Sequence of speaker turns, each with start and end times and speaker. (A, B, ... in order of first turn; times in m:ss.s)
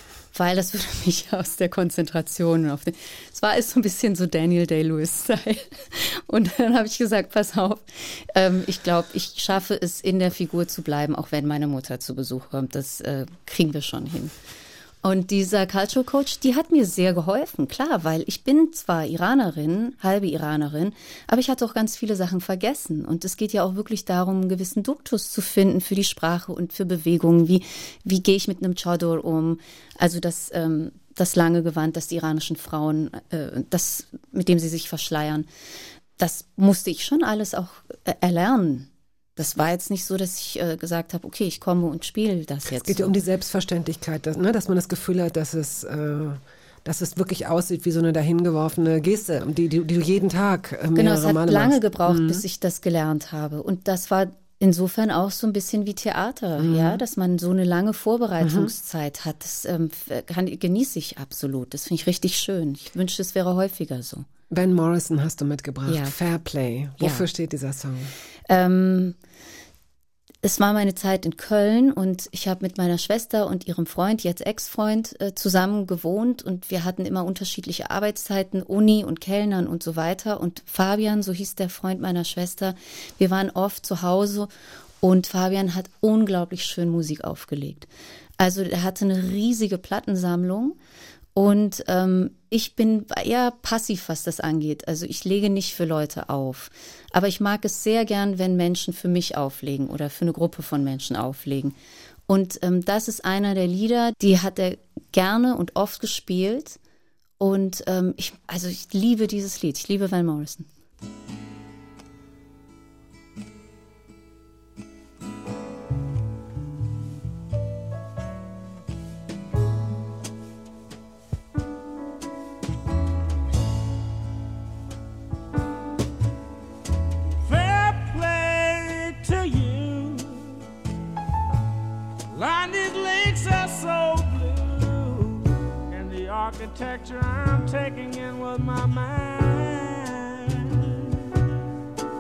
0:00.3-0:14.3 A
0:15.0-0:35.5 A
0:36.2-0:43.1 A
0:42.7-0:52.4 B
0:51.0-1:04.3 A
0:56.6-0:57.0 B
0:58.4-0:58.7 B
1:04.5-1:08.1 B
1:05.9-1:06.2 A
1:07.0-1:07.3 A
1:08.5-1:09.2 A
1:10.4-1:24.5 A
1:25.0-1:27.9 A
1:28.4-1:30.8 A
1:31.4-1:41.8 A
1:42.3-1:46.8 A
1:47.4-1:50.7 A
2:07.5-2:10.4 C
2:12.3-2:20.9 C